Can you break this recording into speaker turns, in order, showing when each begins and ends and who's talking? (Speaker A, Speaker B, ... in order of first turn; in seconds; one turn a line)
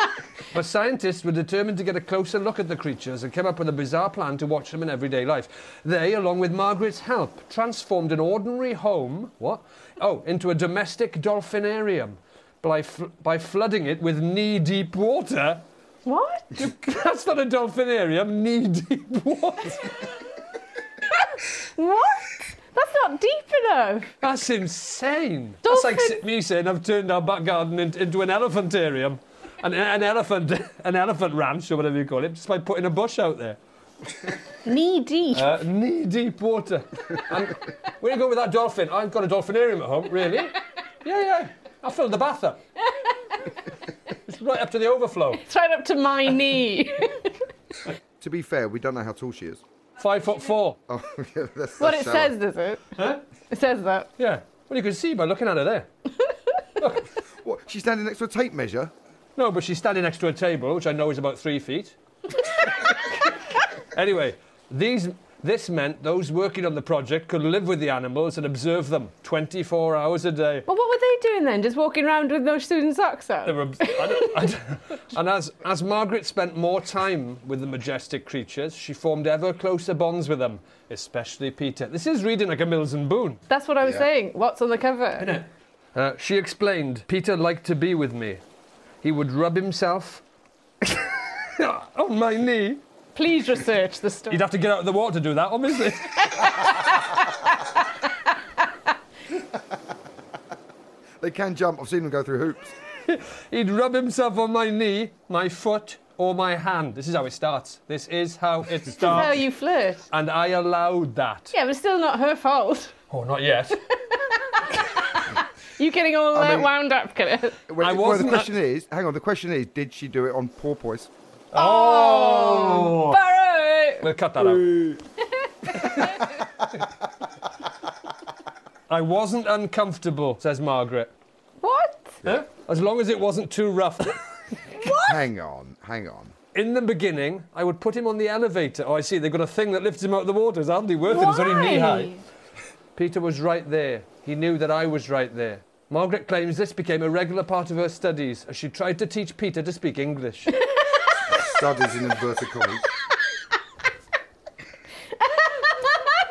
Speaker A: 0.5-15.6
Speaker B: 16.0-16.7
Speaker A: 16.6-19.9
Speaker B: 21.1-24.1
Speaker A: 24.2-33.6
Speaker B: 25.6-26.2
Speaker B: 34.6-35.5
Speaker A: 35.3-42.6
Speaker A: 44.2-45.4
Speaker B: 45.4-47.3
Speaker C: 48.2-49.6
Speaker A: 50.0-50.8
Speaker C: 50.9-52.3
Speaker B: 51.8-52.9
Speaker B: 53.5-54.1
Speaker A: 54.2-55.9
Speaker A: 56.8-57.0
Speaker C: 57.4-58.9
Speaker A: 59.4-62.0
Speaker A: 63.9-70.7
Speaker B: 70.7-74.5
Speaker A: 73.4-83.4
Speaker B: 83.5-85.3
Speaker A: 85.2-88.4
Speaker A: 89.0-90.2
Speaker A: 90.8-92.8
Speaker B: 93.1-94.4
Speaker A: 94.3-96.7
Speaker B: 96.4-96.7
Speaker C: 101.2-102.7
Speaker A: 103.0-109.4
Speaker B: 109.0-110.1
Speaker A: 110.1-111.5
Speaker B: 111.5-112.9
Speaker A: 113.1-113.8
Speaker B: 114.1-114.6
Speaker B: 115.8-117.6
Speaker C: 116.3-116.7
Speaker C: 117.7-121.1
Speaker A: 117.8-118.5
Speaker A: 121.5-123.2
Speaker B: 121.5-124.1
Speaker A: 124.0-125.0
Speaker A: 125.8-126.2
Speaker B: 125.8-126.2
Speaker A: 128.9-131.1
Speaker B: 131.6-132.2
Speaker A: 132.2-134.2
Speaker B: 134.8-135.2
Speaker C: 135.0-136.3
Speaker A: 136.5-142.1
Speaker B: 141.1-142.2
Speaker A: 142.9-150.5
Speaker C: 151.3-152.8
Speaker B: 155.4-155.9